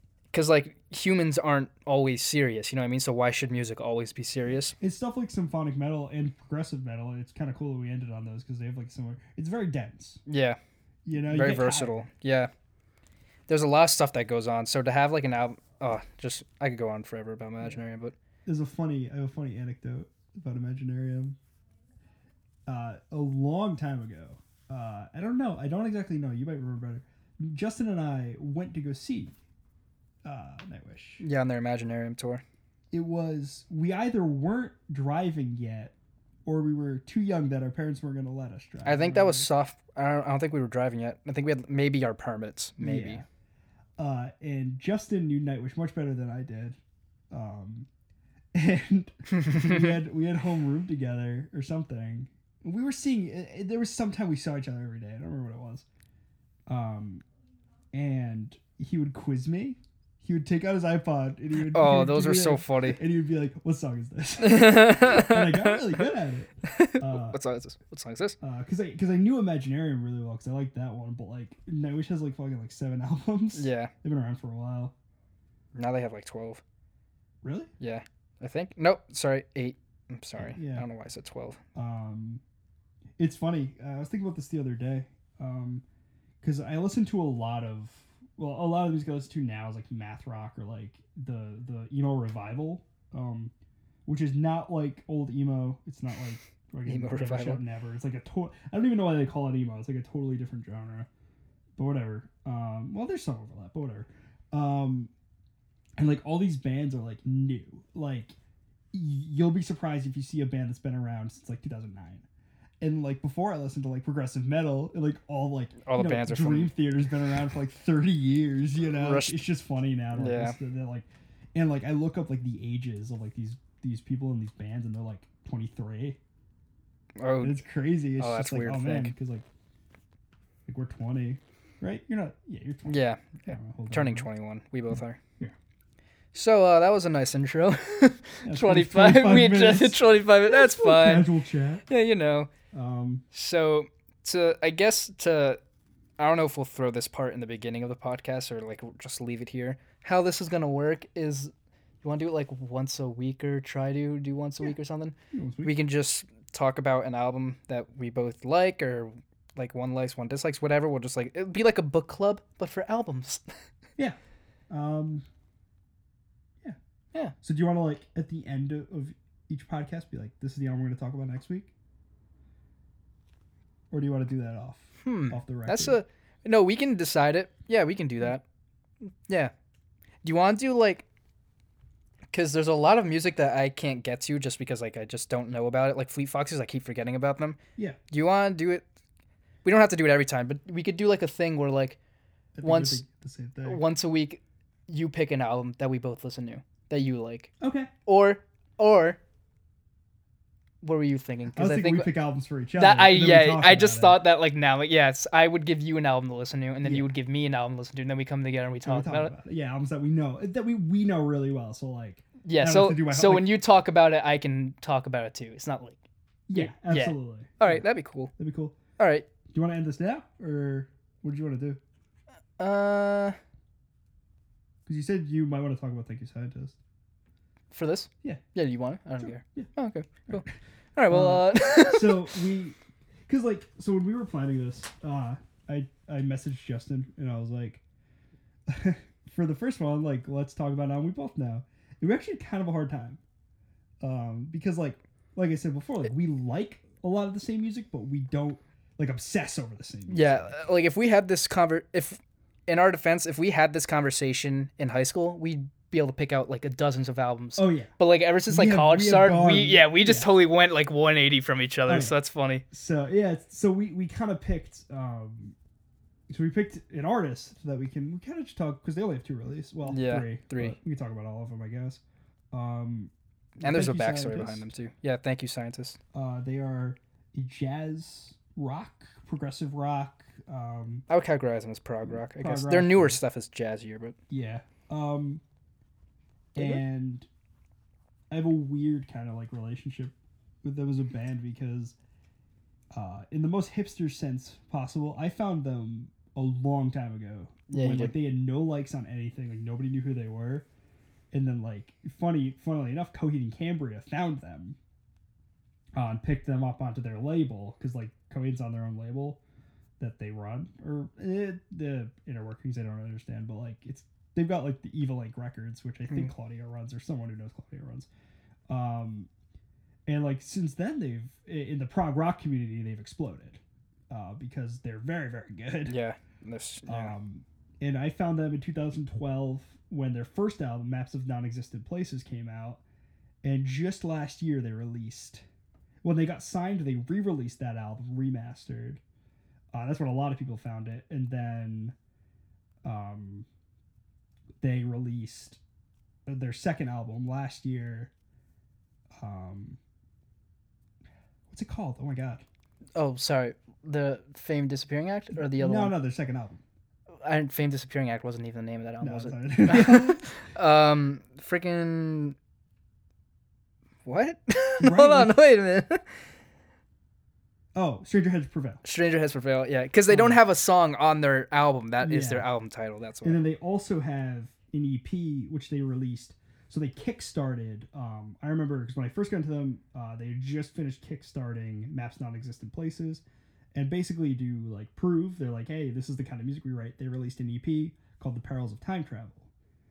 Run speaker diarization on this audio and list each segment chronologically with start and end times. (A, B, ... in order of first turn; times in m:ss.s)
0:00.3-0:04.8 A
0:04.8-0:10.2 B
0:10.2-0:10.6 A
0:11.0-0:12.0 B
0:11.2-0:12.5 A
0:13.5-0:18.1 A
0:18.4-0:21.4 B
0:22.6-0:29.4 B
0:30.2-0:31.2 B
0:31.2-0:32.4 A
0:32.9-0:35.9 B
0:36.4-0:39.5 B
0:38.8-0:43.2 A
0:42.8-0:43.2 B
0:44.0-0:46.8 B
0:47.3-0:47.9 B
0:48.5-0:55.8 B
0:49.4-0:50.0 A
0:56.7-0:57.2 B
0:57.9-1:07.4 B
1:01.7-1:03.0 A
1:04.4-1:06.0 A
1:06.6-1:08.4 A
1:08.4-1:14.9 B
1:13.5-1:13.9 A
1:15.7-1:16.6 A
1:17.4-1:17.7 B
1:17.8-1:21.6 A
1:20.4-1:20.8 B
1:21.7-1:22.4 B
1:23.2-1:25.8 B
1:26.4-1:33.5 B
1:34.0-1:41.1 B
1:36.8-1:37.6 A
1:41.8-1:45.1 B
1:46.0-1:48.4 B
1:48.9-1:52.2 B
1:52.8-2:06.2 B
1:55.8-1:56.8 A
1:58.8-1:59.4 A
2:00.1-2:00.6 A
2:07.2-2:07.6 A
2:07.4-2:09.4 B
2:08.2-2:09.1 A
2:10.7-2:14.3 B
2:12.9-2:15.2 A
2:16.3-2:21.3 A
2:18.4-2:21.8 B
2:21.9-2:22.5 A
2:22.7-2:23.2 B
2:23.3-2:25.6 A
2:26.2-2:31.5 A
2:32.0-2:43.4 A
2:35.3-2:35.7 B
2:44.7-2:45.2 B
2:47.4-2:51.7 B
2:53.9-2:56.0 B
2:55.0-2:58.4 A
2:59.3-2:59.5 A
3:00.2-3:01.0 A
3:02.3-3:07.6 A
3:08.1-3:08.8 A
3:09.6-3:12.0 A
3:12.5-3:13.8 B
3:12.6-3:13.0 A
3:13.6-3:17.5 A
3:17.6-3:17.9 B
3:18.0-3:19.2 A
3:20.8-3:22.1 A
3:21.5-3:24.2 B
3:22.8-3:29.3 A
3:26.8-3:27.1 B
3:28.8-3:33.5 B
3:32.4-3:36.0 A
3:36.5-3:38.8 B
3:36.5-3:38.3 A
3:39.0-3:39.3 A
3:39.5-3:41.8 B
3:42.6-3:43.4 A
3:44.8-3:46.8 B
3:47.7-3:52.3 A
3:49.2-3:49.7 B
3:51.1-3:57.8 B
3:58.7-4:03.2 B
4:04.0-4:10.6 B
4:10.1-4:22.6 A
4:17.6-4:17.9 B
4:18.5-4:20.3 B
4:21.9-4:22.2 B
4:22.7-4:25.6 B
4:26.3-4:32.0 B
4:29.8-4:30.8 A
4:32.5-4:34.7 B
4:33.6-4:36.0 A
4:36.1-4:41.0 B
4:41.1-4:44.2 A
4:42.1-4:43.2 B
4:44.3-4:45.4 B
4:46.5-4:47.3 B
4:46.6-4:46.8 A
4:48.3-4:51.9 B
4:52.9-5:00.6 B
4:57.7-4:58.2 A
5:01.3-5:04.8 B
5:05.9-5:09.4 B
5:10.0-5:18.1 B
5:18.7-5:19.3 B
5:20.1-5:26.0 B
5:25.9-5:27.1 A
5:26.8-5:32.8 B
5:33.4-5:35.4 B
5:36.0-5:39.0 B
5:39.7-5:41.9 B
5:42.8-5:43.4 B
5:44.6-5:45.6 B
5:46.2-5:48.1 B
5:49.2-5:49.8 B
5:51.5-5:52.4 B
5:53.0-5:56.0 A
5:55.4-5:56.6 B
5:57.2-6:02.4 A
5:59.0-6:00.2 B
6:04.0-6:06.1 A
6:04.8-6:05.3 B
6:07.7-6:08.8 B
6:08.8-6:13.4 A
6:10.1-6:10.4 B
6:12.0-6:12.5 B
6:13.2-6:23.2 B
6:23.7-6:29.5 B